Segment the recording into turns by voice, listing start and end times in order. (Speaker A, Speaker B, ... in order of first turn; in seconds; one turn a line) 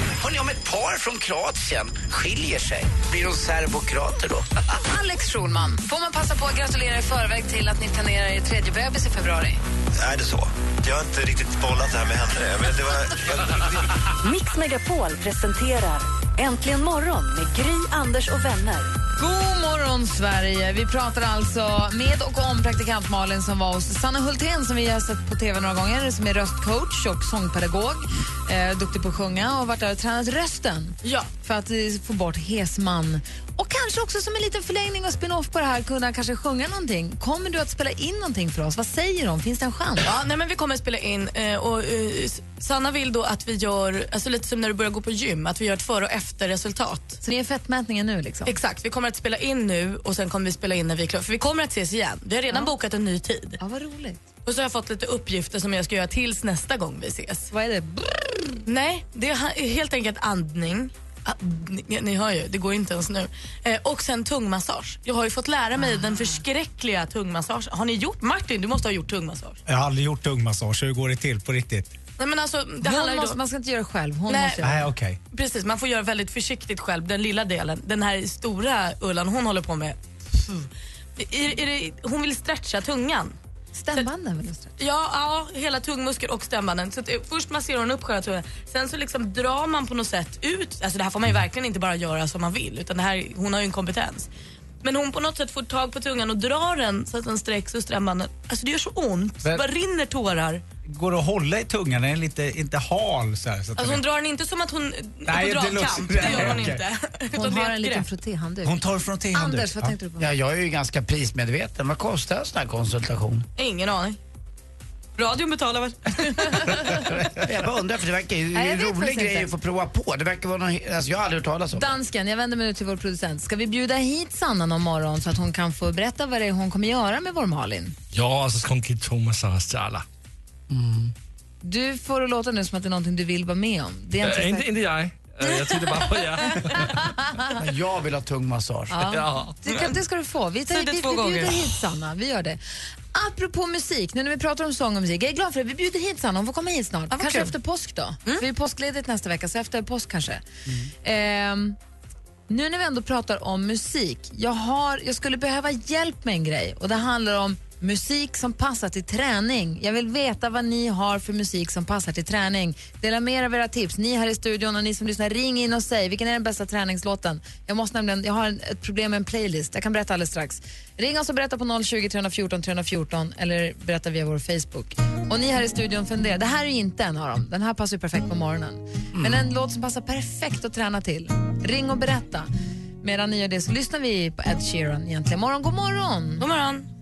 Speaker A: 0.2-4.5
Speaker B: 4.9-9.6
Speaker C: 10.0-13.7
Speaker D: 14.2-18.9
Speaker B: 19.2-40.1
Speaker E: 40.0-47.2
Speaker B: 47.2-48.5
Speaker E: 48.5-53.6
Speaker B: 53.6-54.2
Speaker E: 54.5-57.5
Speaker B: 57.5-58.6
Speaker E: 58.6-69.6
Speaker B: 65.9-66.4
Speaker F: 69.7-71.9
Speaker E: 72.2-73.4
Speaker B: 72.8-74.9
Speaker E: 74.3-74.7
Speaker F: 74.6-75.2
Speaker E: 75.3-83.4
Speaker B: 83.8-84.7
Speaker E: 84.8-94.3
Speaker E: 94.8-100.6
Speaker F: 100.9-104.0
Speaker E: 103.8-108.0
Speaker F: 105.2-106.8
Speaker B: 106.2-106.6
Speaker B: 107.3-108.8
Speaker F: 108.6-109.9
Speaker B: 109.3-110.3
Speaker A: 110.2-113.5
Speaker E: 113.6-114.2
Speaker E: 115.2-117.0
Speaker A: 117.0-121.9
Speaker B: 118.5-119.5
Speaker B: 121.7-128.0
Speaker G: 128.1-130.0
Speaker A: 130.7-131.1
Speaker B: 131.6-134.7
Speaker G: 134.2-136.9
Speaker B: 135.5-136.1
Speaker B: 137.1-137.4
Speaker A: 137.6-139.2
Speaker B: 138.9-142.6
Speaker G: 139.1-139.6
Speaker E: 140.7-141.8
Speaker B: 143.1-150.4
Speaker E: 147.1-147.5
Speaker B: 151.0-151.8
Speaker B: 152.5-182.5
Speaker A: 179.1-179.4
Speaker B: 183.0-186.4
Speaker E: 186.4-186.9